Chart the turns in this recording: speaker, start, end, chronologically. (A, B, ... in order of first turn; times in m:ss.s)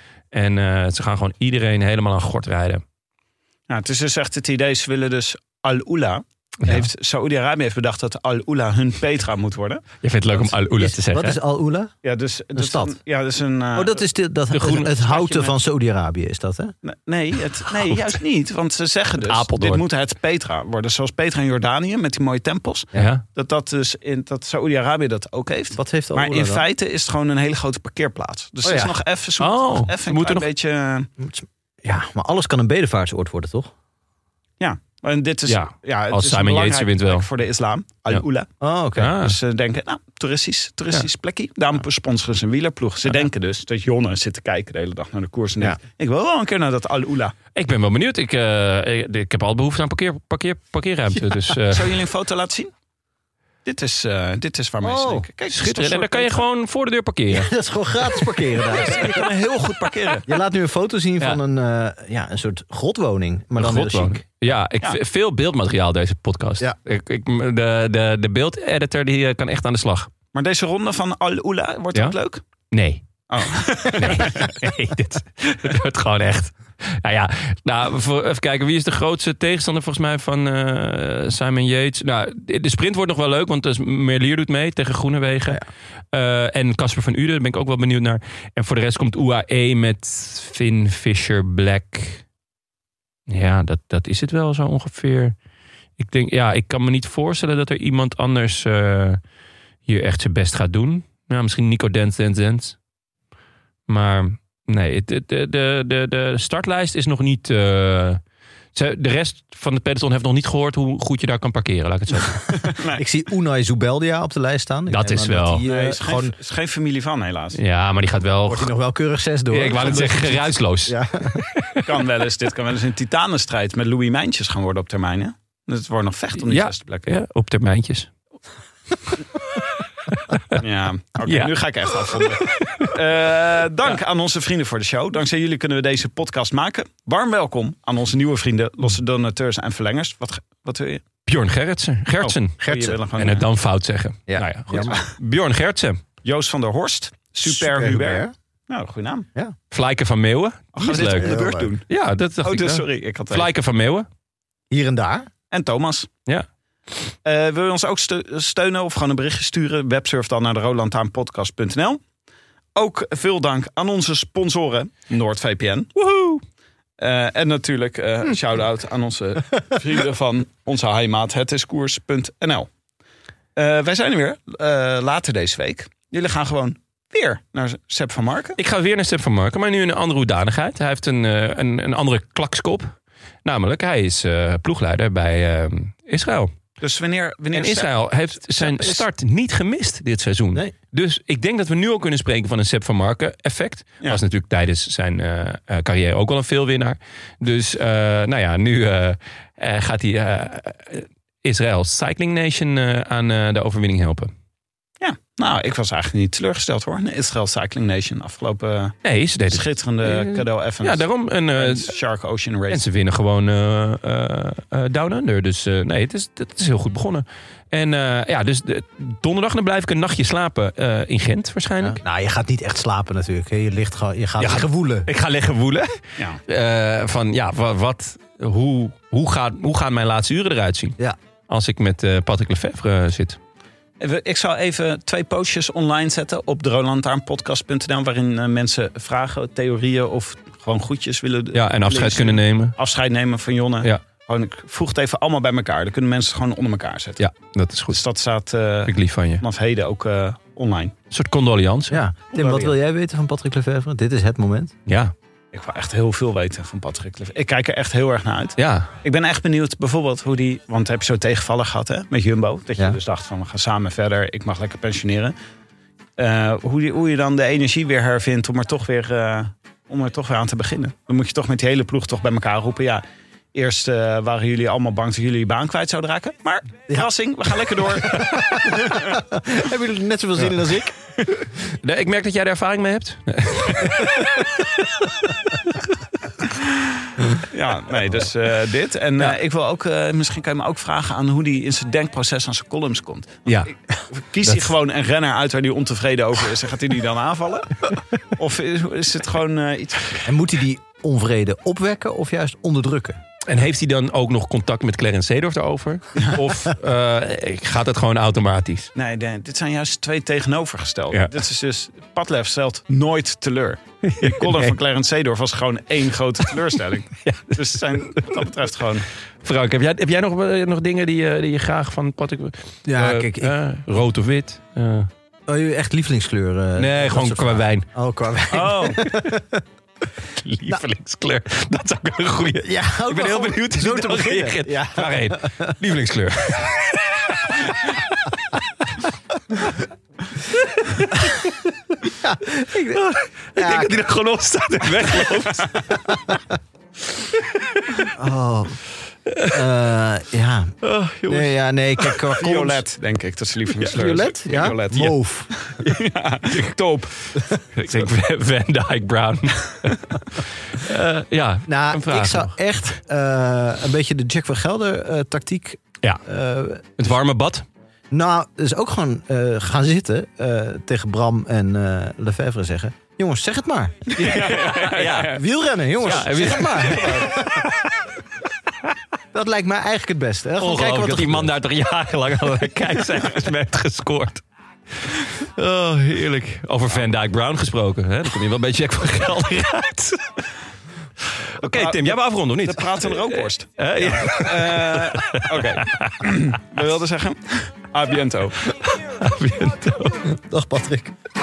0:00.3-0:02.8 A
0:03.7-0:09.8 B
0:10.0-0:11.4 A
0:10.7-0:11.9 C
0:12.0-0:14.1 B
0:12.6-0:13.0 C
0:13.7-0:16.7 C
0:14.5-0:14.9 A
0:14.8-0:15.6 B
0:16.8-0:31.1 B
0:19.3-0:19.8 A
0:23.0-0:23.2 A
0:25.7-0:26.6 C
0:28.6-0:29.0 C
0:29.4-0:30.5 A
0:31.2-0:33.7 C
0:34.6-0:38.5 B
0:35.5-0:37.3 A
0:38.6-0:39.2 C
0:39.0-0:39.4 A
0:39.2-0:47.3 B
0:47.6-0:51.9 A
0:51.6-0:52.7 B
0:53.6-0:56.4 B
0:54.8-0:55.3 C
0:55.5-0:57.5 A
0:57.3-0:59.3 C
0:58.7-1:00.3 B
0:59.1-1:00.2 A
1:00.3-1:04.2 C
1:03.6-1:10.1 A
1:10.4-1:12.4 B
1:12.7-1:13.1 A
1:13.3-1:14.4 B
1:14.0-1:25.6 A
1:26.1-1:32.2 A
1:33.3-1:35.4 A
1:36.0-1:39.2 A
1:39.9-1:42.8 A
1:43.9-1:48.2 A
1:48.7-1:52.4 A
1:52.5-1:53.0 B
1:53.0-1:56.3 C
1:54.9-1:55.6 A
1:55.6-1:57.6 B
1:57.6-1:58.7 A
1:58.5-2:01.4 C
1:59.5-2:01.8 A
2:01.8-2:07.1 B
2:06.4-2:08.1 A
2:10.1-2:10.6 A
2:10.6-2:21.0 B
2:11.2-2:11.5 A
2:12.5-2:12.9 A
2:21.3-2:26.0 A
2:22.2-2:23.5 B
2:22.7-2:23.0 C
2:24.3-2:25.0 C
2:24.8-2:25.1 B
2:26.2-2:29.3 B
2:27.4-2:28.3 C
2:29.7-2:31.4 A
2:30.8-2:31.9 B
2:31.0-2:31.7 C
2:31.9-2:34.1 A
2:32.4-2:33.5 B
2:34.7-2:35.3 C
2:35.5-2:36.1 B
2:37.2-2:42.0 B
2:42.8-2:45.9 B
2:46.0-2:46.4 A
2:47.0-2:52.7 B
2:53.6-2:58.6 B
2:58.6-3:02.9 A
3:03.4-3:06.5 A
3:06.8-3:07.9 B
3:07.5-3:24.3 A
3:08.7-3:09.0 C
3:25.0-3:32.8 B
3:29.0-3:32.0 A
3:32.7-3:42.0 A
3:41.8-3:45.1 C
3:44.4-3:45.9 A
3:46.5-3:51.0 A
3:51.5-3:53.4 A
3:54.0-4:07.2 B
4:01.5-4:02.8 A
4:07.2-4:08.0 A
4:07.9-4:10.9 B
4:08.9-4:09.4 A
4:11.1-4:12.0 A
4:11.9-4:14.7 C
4:12.3-4:12.7 B
4:14.9-4:15.1 A
4:15.5-4:25.4 B
4:18.6-4:18.9 A
4:26.2-4:33.0 B
4:33.5-4:39.1 B
4:38.1-4:40.9 C
4:41.7-4:44.4 A
4:47.5-5:00.3 B
5:00.2-5:03.2 C
5:03.5-5:08.9 A
5:09.0-5:19.1 B
5:14.0-5:14.7 A
5:17.2-5:17.6 A
5:19.4-5:25.1 A
5:22.9-5:23.6 C
5:25.5-5:29.6 C
5:26.8-5:27.9 A
5:28.5-5:29.0 B
5:28.5-5:29.3 A
5:30.4-5:38.6 A
5:32.6-5:35.7 C
5:40.6-5:41.4 A
5:42.2-5:43.0 C
5:42.9-5:45.8 A
5:43.6-5:44.0 C
5:47.4-5:48.0 A
5:48.2-5:48.8 C
5:49.3-5:49.6 A
5:49.5-5:52.8 C
5:50.8-5:52.2 A
5:52.4-5:57.1 B
5:53.9-5:55.5 C
5:57.7-6:02.6 A
6:01.7-6:06.8 C
6:07.0-6:07.7 A
6:08.1-6:14.2 C
6:14.2-6:15.4 A
6:14.2-6:15.4 B
6:15.2-6:17.6 C
6:16.0-6:17.8 A
6:16.8-6:17.3 B
6:19.3-6:21.5 C
6:20.6-6:24.4 A
6:25.1-6:30.3 A
6:31.4-6:36.3 A
6:31.6-6:38.8 B
6:38.8-6:40.3 A
6:40.2-6:41.2 C